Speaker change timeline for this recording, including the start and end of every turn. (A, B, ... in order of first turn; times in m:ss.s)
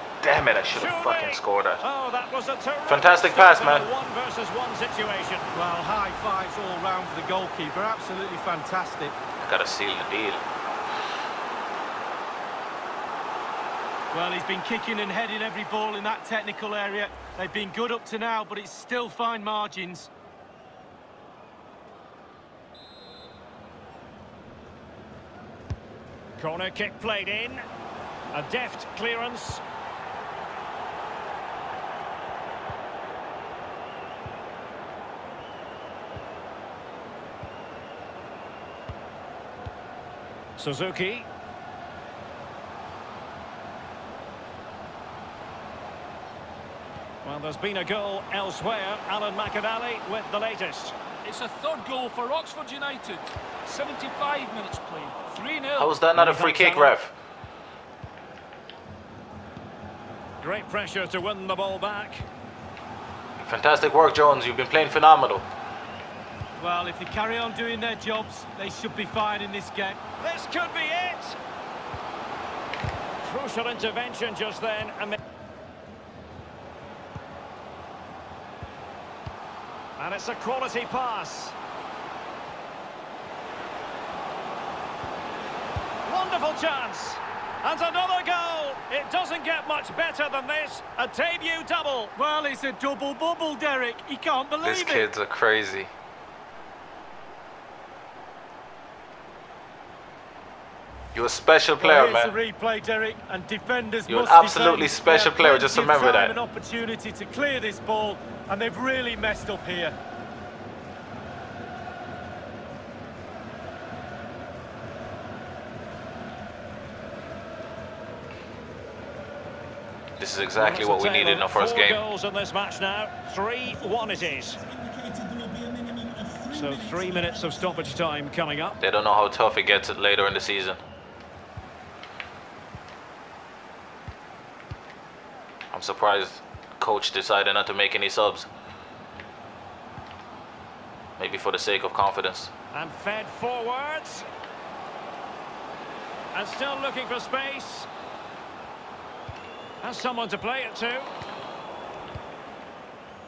0:00.2-0:01.8 A
0:00.7-0:05.5 B
0:02.9-0:03.9 A
0:05.5-0:09.1 C
0:09.4-0:10.4 A
0:14.1-0:20.1 C
0:26.4-0:27.6 B
0:28.3-0:29.6 B
0:40.6-0:41.3 B
0:47.2-0:50.9 B
0:51.3-0:55.9 D
0:55.8-0:57.1 A
0:56.1-0:56.9 B
1:00.4-1:02.2 B
1:03.4-1:05.5 A
1:06.6-1:10.0 C
1:10.2-1:11.4 B
1:13.2-1:15.2 B
1:20.0-1:21.5 B
1:26.0-1:32.1 B
1:32.2-1:35.1 C
1:34.6-1:35.9 A
1:41.1-1:42.3 A
1:41.8-1:49.9 C
1:44.1-1:46.3 A
2:00.2-2:02.0 A
2:00.5-2:04.6 B
2:04.8-2:06.4 C
2:06.5-2:08.8 B
2:08.8-2:10.8 A
2:15.7-2:18.5 A
2:21.2-2:22.5 A
2:22.7-2:24.2 B
2:26.3-2:27.9 B
2:29.8-2:31.1 B